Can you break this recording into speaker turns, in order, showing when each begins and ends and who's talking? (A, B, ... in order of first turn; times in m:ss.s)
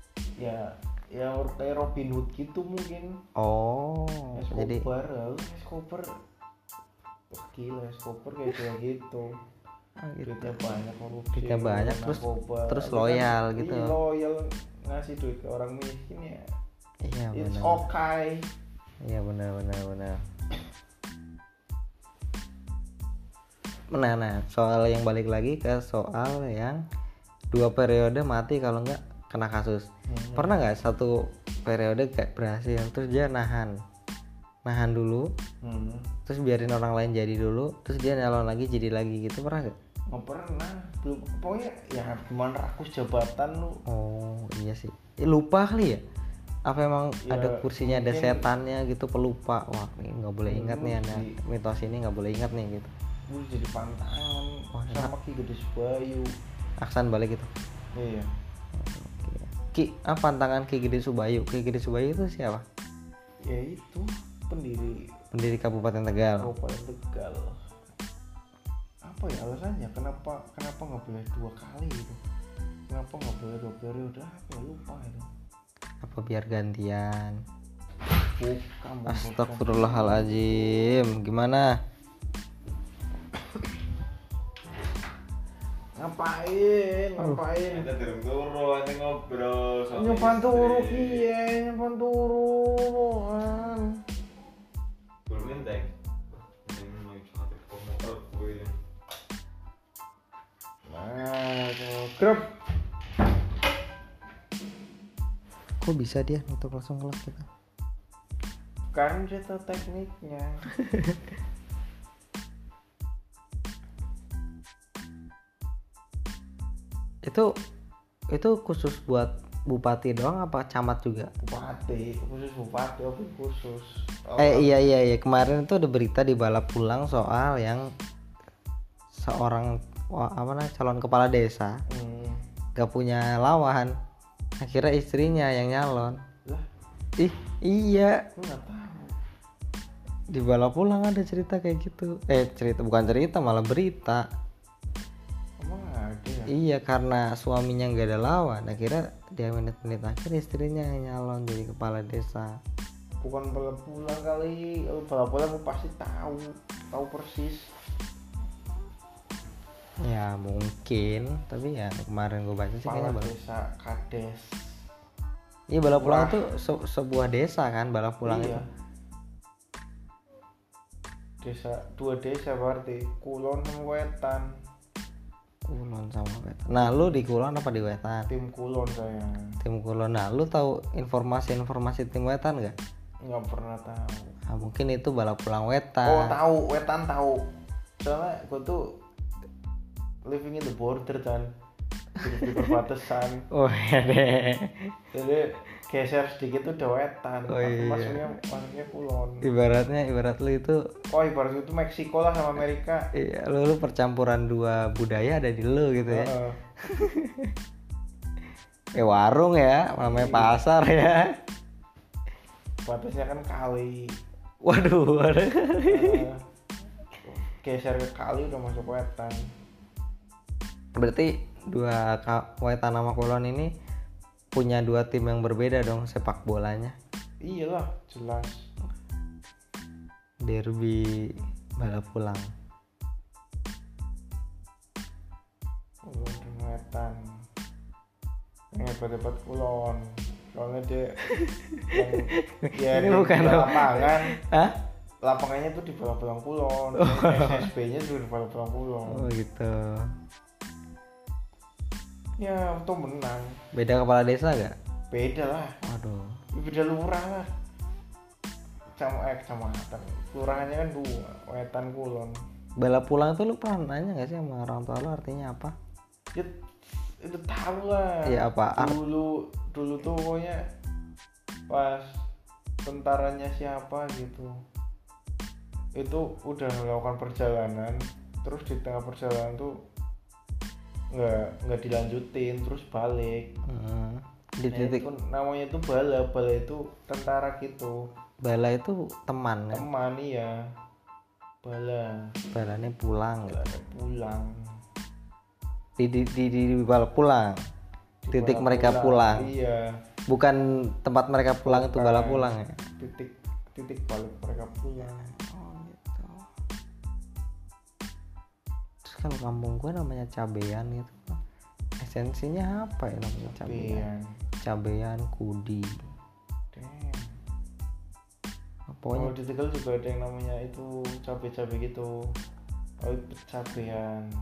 0:00.4-0:03.2 A
0:03.4-0:04.8 B
0:04.3-0:06.1 A
0:07.3-0:09.4 A
0:10.0-0:10.7 B
0:10.2-0:16.4 A
0:11.3-0:13.9 B
0:17.0-0:17.8 B
0:17.3-0:18.5 A
0:19.0-0:20.2 B
0:23.9-0:26.8 B
0:27.5-0:33.8 B
0:30.1-0:30.6 A
0:34.6-0:35.3 B
0:35.6-0:36.1 A
0:36.2-0:39.8 B
0:40.1-0:43.8 A
0:43.9-0:46.0 B
0:46.6-0:52.9 B
0:47.2-0:48.5 A
0:50.5-0:51.3 A
0:53.3-0:56.3 A
0:54.7-0:55.1 B
0:56.8-0:57.5 B
0:58.0-0:58.3 A
0:58.7-1:02.6 B
1:03.5-1:05.1 A
1:05.3-1:06.5 B
1:06.4-1:07.6 A
1:09.0-1:12.2 A
1:12.9-1:15.3 A
1:16.0-1:17.4 B
1:18.3-1:21.0 A
1:19.1-1:21.8 B
1:26.0-1:27.9 A
1:27.6-1:31.2 C
1:29.9-1:34.0 A
1:35.3-1:35.9 C
1:36.5-1:38.7 C
1:40.9-1:42.5 A
1:45.8-1:47.4 B
1:48.9-1:50.6 A
1:50.8-1:51.2 B
1:58.3-2:01.3 B
2:01.4-2:04.7 A
2:04.4-2:07.9 B
2:09.1-2:11.8 B
2:11.9-2:12.4 A
2:12.8-2:13.9 B
2:14.6-2:16.2 B
2:17.2-2:18.2 B
2:18.4-2:19.1 A
2:20.3-2:24.2 B
2:25.6-2:26.5 A
2:26.5-2:32.6 B
2:33.2-2:37.7 A
2:40.0-2:43.3 B
2:42.8-2:44.8 A
2:45.7-2:48.6 B
2:45.9-2:46.4 A
2:48.2-2:48.6 A
2:51.4-2:54.5 A
2:55.7-2:58.3 B
2:56.8-2:57.2 A
2:58.3-2:59.6 A
2:59.6-3:02.8 B
3:03.2-3:04.4 A
3:04.5-3:06.4 B
3:06.0-3:07.5 A
3:08.0-3:09.0 A
3:10.2-3:11.5 A
3:12.2-3:13.4 A
3:12.4-3:12.6 B
3:13.5-3:15.0 B
3:15.1-3:19.4 A
3:17.5-3:18.2 B
3:19.4-3:20.8 B
3:21.1-3:23.1 A
3:23.1-3:27.5 B
3:26.1-3:26.6 A
3:29.0-3:31.3 B
3:30.0-3:30.6 A
3:32.8-3:34.1 A
3:34.6-3:36.2 B
3:35.8-3:36.4 A
3:37.2-3:39.4 A
3:40.9-3:43.7 B
3:44.5-3:47.0 B
3:47.4-3:48.6 A
3:50.4-3:52.5 B
3:56.1-3:57.2 A
3:58.7-4:01.2 A
4:01.3-4:04.8 B
4:01.9-4:04.4 A
4:05.2-4:09.3 A
4:07.0-4:07.7 B
4:09.1-4:10.1 B
4:12.4-4:13.6 A
4:13.7-4:14.7 B
4:15.1-4:15.8 A
4:15.8-4:16.4 B
4:16.5-4:17.5 A
4:19.0-4:22.4 A
4:22.8-4:25.7 B
4:26.3-4:30.6 A
4:28.2-4:29.0 B
4:31.7-4:32.2 A
4:32.8-4:34.5 A
4:36.0-4:39.7 A
4:41.1-4:43.5 A
4:43.6-4:45.1 B
4:44.7-4:48.0 A
4:48.4-4:49.8 B
4:49.7-4:50.6 A
4:51.6-4:52.4 A
4:52.5-4:53.8 B
4:53.4-4:54.5 A
4:56.0-4:57.6 B
4:58.2-4:59.9 A
4:58.3-4:59.5 B
5:00.3-5:02.8 B
5:01.6-5:05.2 A
5:05.0-5:06.4 B
5:09.0-5:11.4 B
5:12.0-5:14.1 B
5:13.4-5:14.3 A
5:14.6-5:16.0 B
5:16.7-5:17.4 A
5:18.9-5:19.3 B
5:19.1-5:22.1 A
5:23.0-5:24.3 A